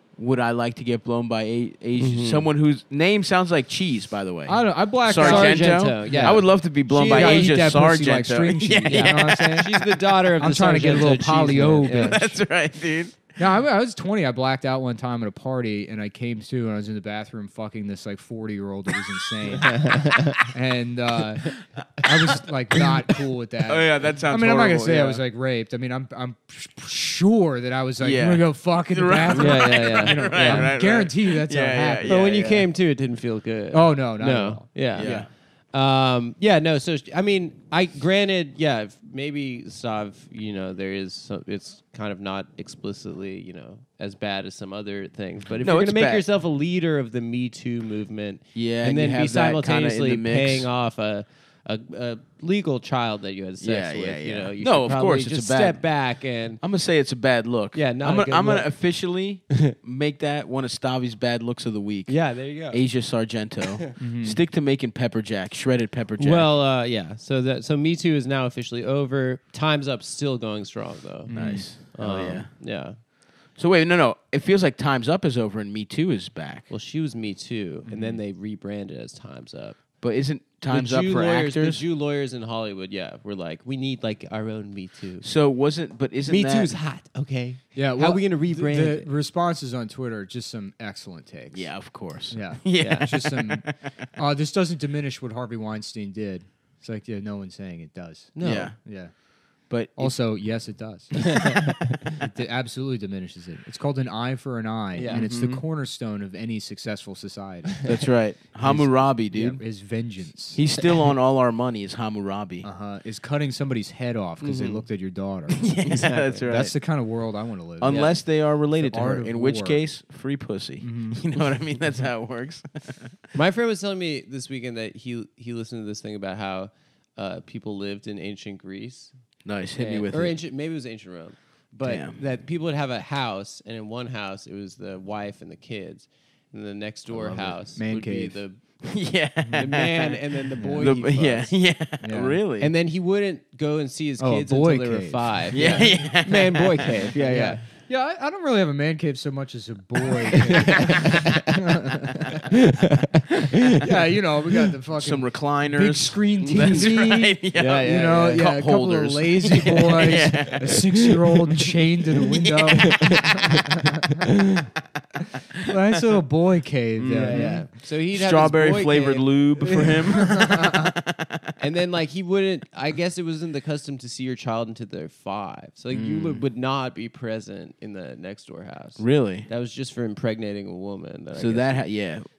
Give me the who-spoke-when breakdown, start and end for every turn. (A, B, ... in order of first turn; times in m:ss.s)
0:00.2-0:09.8 A
0:02.0-0:02.5 B
0:04.4-0:06.4 C
0:05.1-0:07.6 B
0:07.1-0:09.7 C
0:08.9-0:12.2 B
0:10.4-0:12.4 C
0:11.8-0:13.4 A
0:13.4-0:32.1 C
0:19.5-0:20.5 B
0:22.0-0:22.4 A
0:23.6-0:25.2 A
0:28.0-0:32.7 A
0:29.3-0:30.7 B
0:32.0-0:35.2 B
0:33.7-0:35.3 C
0:34.9-0:35.3 A
0:35.7-0:56.6 B
0:45.6-0:46.2 A
0:48.5-0:50.7 A
0:53.6-0:55.8 A
0:56.6-1:06.5 A
0:57.7-0:58.7 B
1:02.1-1:02.8 B
1:04.0-1:04.4 C
1:06.2-1:13.0 B
1:11.3-1:11.7 C
1:11.3-1:12.5 A
1:13.6-1:16.7 A
1:16.7-1:19.8 B
1:17.9-1:18.2 A
1:20.0-1:21.8 A
1:20.7-1:25.3 B
1:25.2-1:26.7 A
1:26.2-1:29.1 B
1:27.7-1:31.7 C
1:31.5-1:33.7 A
1:32.3-1:39.1 C
1:32.8-1:33.1 B
1:38.4-1:38.7 B
1:38.4-1:38.8 A
1:39.7-1:40.1 A
1:40.0-1:41.4 C
1:41.3-1:42.0 B
1:42.2-1:47.8 C
1:44.9-1:45.3 B
1:45.0-1:45.6 A
1:47.8-1:49.6 A
1:48.6-1:50.6 C
1:50.5-1:52.7 A
1:52.6-1:55.6 C
1:54.4-1:54.8 A
1:55.5-1:56.7 A
1:55.8-1:56.5 B
1:56.5-1:58.2 C
1:57.8-2:03.1 A
1:58.8-1:59.8 C
2:00.8-2:01.2 C
2:03.3-2:09.1 B
2:09.4-2:10.4 A
2:09.8-2:18.6 B
2:11.8-2:12.2 A
2:17.1-2:18.4 C
2:18.8-2:22.7 A
2:19.6-2:21.5 B
2:20.6-2:20.9 C
2:22.0-2:22.4 C
2:22.6-2:27.6 B
2:24.2-2:26.0 C
2:25.5-2:27.6 A
2:27.3-2:32.6 C
2:30.3-2:31.6 B
2:32.3-2:33.8 B
2:33.8-2:44.3 C
2:35.0-2:41.6 A
2:37.5-2:38.5 B
2:42.2-2:43.2 A
2:42.7-2:44.6 B
2:45.2-2:47.6 C
2:45.6-2:46.1 A
2:47.0-2:51.4 A
2:47.2-2:49.3 B
2:49.6-2:51.0 C
2:51.6-3:01.8 B
2:55.9-2:56.4 A
2:59.0-2:59.5 A
3:01.4-3:02.3 A